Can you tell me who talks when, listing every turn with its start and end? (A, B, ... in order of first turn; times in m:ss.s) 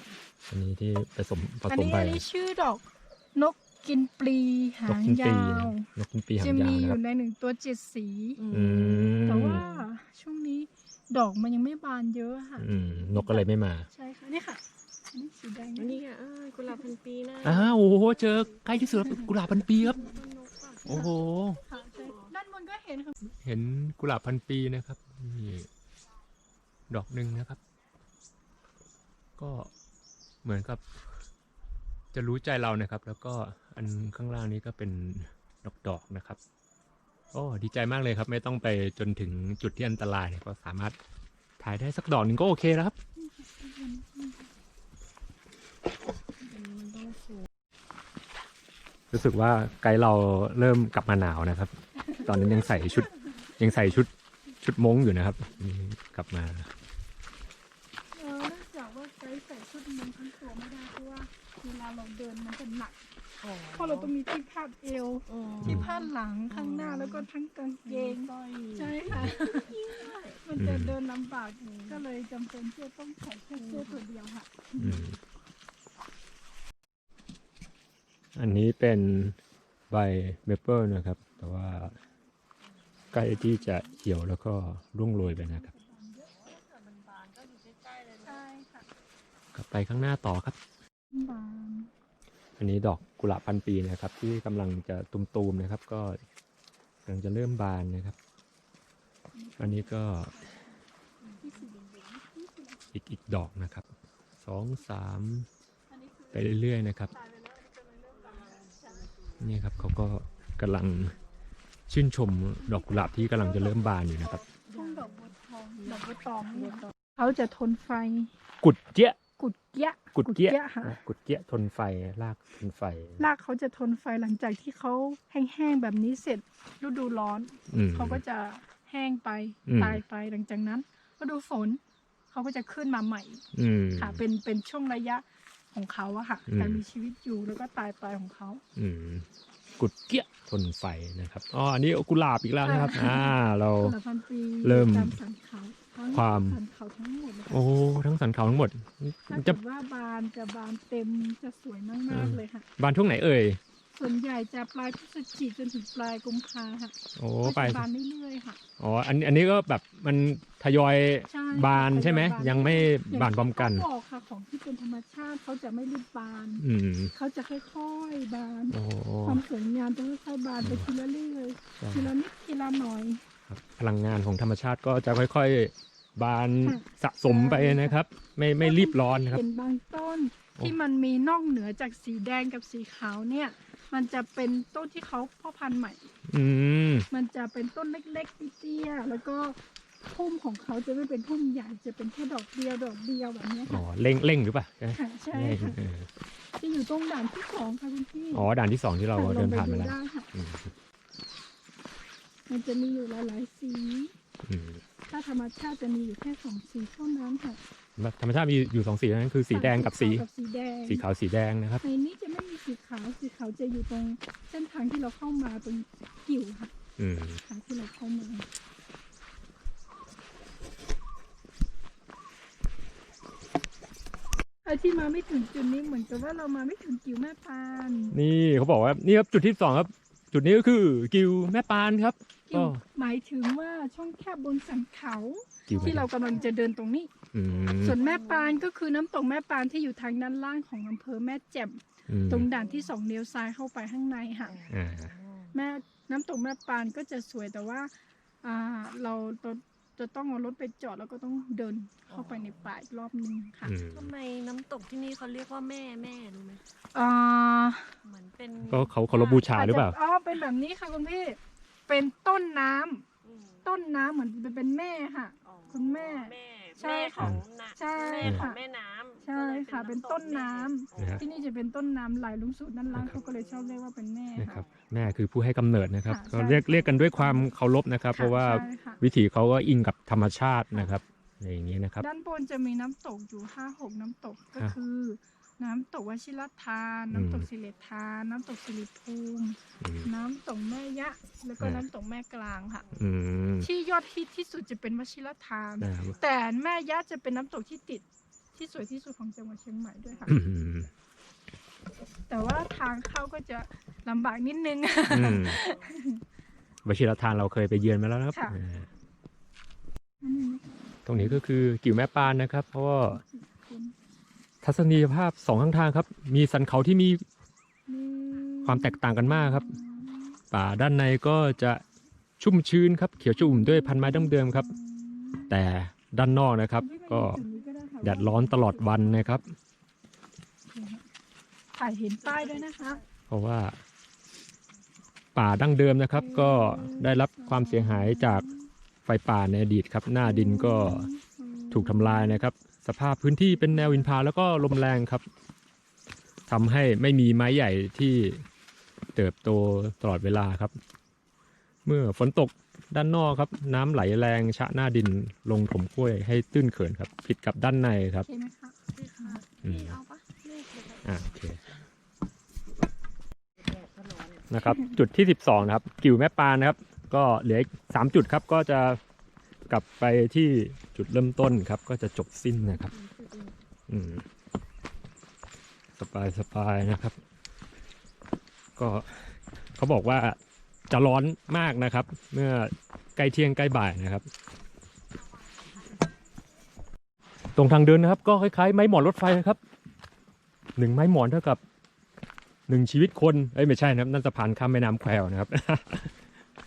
0:00.5-0:02.2 A
0:01.7-0:08.4 B
0:04.9-0:07.0 A
0:08.4-0:09.9 C
0:08.5-0:09.6 A
0:09.2-0:16.0 B
0:12.6-0:13.9 A
0:15.8-0:18.6 C
0:17.4-0:20.0 A
0:19.8-0:21.2 C
0:20.8-0:21.6 A
0:21.7-0:23.2 B
0:21.7-0:22.3 C
0:23.4-0:25.7 A
0:26.9-0:27.6 A
0:29.4-0:29.7 A
0:30.4-0:30.8 A
0:32.1-0:36.4 A
0:37.3-0:41.0 A
0:41.6-0:42.9 A
0:43.2-0:44.5 B
0:46.4-0:47.5 C
0:49.1-0:54.1 A
0:52.0-0:53.2 B
0:54.6-0:56.7 A
0:58.1-1:03.0 B
1:03.4-1:04.1 C
1:03.7-1:15.1 B
1:05.3-1:07.3 C
1:05.6-1:05.9 A
1:07.8-1:10.4 C
1:09.1-1:09.4 A
1:10.6-1:10.9 A
1:11.7-1:12.0 C
1:13.6-1:14.0 C
1:14.8-1:15.2 A
1:18.3-1:19.4 A
1:19.9-1:22.0 A
1:23.1-1:25.7 A
1:25.2-1:26.3 B
1:26.2-1:28.4 C
1:28.2-1:28.9 B
1:29.5-1:30.6 A
1:31.1-1:31.9 B
1:32.6-1:36.2 A
1:37.0-1:38.2 A
1:39.3-1:40.8 B
1:39.6-1:40.3 A
1:41.4-1:42.8 B
1:42.9-1:45.5 A
1:45.9-1:46.5 B
1:46.3-1:47.1 A
1:47.1-1:49.1 B
1:49.4-1:51.2 A
1:51.9-1:54.4 A
1:52.7-1:58.3 B
1:54.7-1:56.8 C
1:58.6-1:59.2 A
1:59.4-2:01.0 B
2:00.1-2:03.2 A
2:03.2-2:11.8 B
2:07.7-2:08.2 A
2:09.6-2:10.0 A
2:12.3-2:13.4 B
2:13.5-2:14.2 A
2:14.0-2:18.6 B
2:16.5-2:16.8 A
2:18.8-2:19.2 A
2:19.8-2:24.0 A
2:22.6-2:27.6 B
2:24.6-2:25.2 A
2:26.1-2:26.6 A
2:27.5-2:29.6 A
2:29.3-2:32.6 B
2:32.1-2:33.6 A
2:33.9-2:38.6 B
2:37.2-2:37.9 A
2:38.8-2:43.9 A
2:41.3-2:46.6 B
2:46.6-2:47.1 A
2:47.1-2:53.3 B
2:48.7-2:49.4 A
2:50.6-2:50.9 A
2:51.8-2:52.1 A
2:53.5-2:59.4 A
2:56.6-2:58.0 B
2:58.6-3:06.1 B
3:06.3-3:07.1 A
3:07.1-3:13.8 B
3:13.7-3:16.1 A
3:14.9-3:15.8 B
3:16.6-3:18.5 B
3:18.3-3:20.7 A
3:19.1-3:20.3 B
3:22.5-3:24.1 B
3:24.4-3:24.8 A
3:25.1-3:27.6 B
3:28.0-3:30.2 A
3:29.5-3:31.0 B
3:30.8-3:31.8 A
3:31.8-3:36.7 B
3:37.0-3:37.4 A
3:37.4-3:38.4 B
3:44.6-3:48.2 B
3:48.1-3:52.8 A
3:52.5-3:57.1 B
3:55.7-3:56.1 A
3:55.7-3:56.4 C
3:57.3-3:58.0 A
3:57.5-3:58.6 C
3:57.8-4:04.6 B
4:02.1-4:02.5 A
4:02.5-4:02.9 C
4:04.4-4:05.5 C
4:04.7-4:05.1 A
4:05.5-4:13.7 B
4:12.1-4:12.7 C
4:13.6-4:14.1 A
4:13.9-4:16.6 C
4:16.9-4:17.9 B
4:18.0-4:19.5 C
4:18.7-4:20.0 A
4:19.5-4:23.0 B
4:23.2-4:23.6 C
4:23.6-4:28.6 B
4:25.4-4:31.3 C
4:28.2-4:28.5 A
4:29.2-4:34.6 B
4:31.0-4:31.2 A
4:32.9-4:33.8 C
4:32.9-4:33.2 A
4:34.4-4:42.0 A
4:34.4-4:34.9 C
4:36.1-4:37.5 B
4:38.1-4:39.0 B
4:38.2-4:39.0 C
4:42.0-4:52.8 B
4:47.1-4:47.5 A
4:49.8-4:50.1 A
4:51.6-4:51.8 A
4:52.9-4:53.7 A
4:53.6-5:00.4 B
4:55.8-4:56.2 A
5:00.3-5:00.9 A
5:02.3-5:06.2 B
5:05.1-5:05.6 A
5:06.8-5:08.9 A
5:08.3-5:08.6 B
5:10.2-5:11.4 B
5:11.0-5:13.2 A
5:13.1-5:13.9 B
5:14.6-5:17.2 A
5:17.9-5:20.4 B
5:18.6-5:19.8 A
5:20.5-5:21.8 A
5:22.4-5:24.7 A
5:23.4-5:25.5 B
5:25.5-5:27.4 A
5:26.8-5:29.4 B
5:28.0-5:29.5 A
5:30.7-5:31.0 B
5:31.7-5:33.0 B
5:32.4-5:32.6 C
5:33.3-5:33.8 A
5:35.3-5:38.4 A
5:36.2-5:38.7 B
5:39.0-5:41.1 A
5:40.2-5:42.5 B
5:41.7-5:45.2 A
5:46.5-5:48.4 A
5:49.1-5:50.8 A
5:51.8-5:58.3 A
5:58.2-5:59.4 B
5:58.9-6:01.4 C
5:59.6-6:00.0 A
6:01.0-6:01.6 A
6:03.6-6:04.5 C
6:04.5-6:09.0 A
6:09.7-6:12.9 A
6:12.6-6:13.6 C
6:13.9-6:14.2 A
6:16.0-6:17.2 A
6:18.8-6:20.4 A
6:20.9-6:24.3 A
6:27.6-6:29.6 A
6:30.8-6:31.6 A
6:32.7-6:36.2 A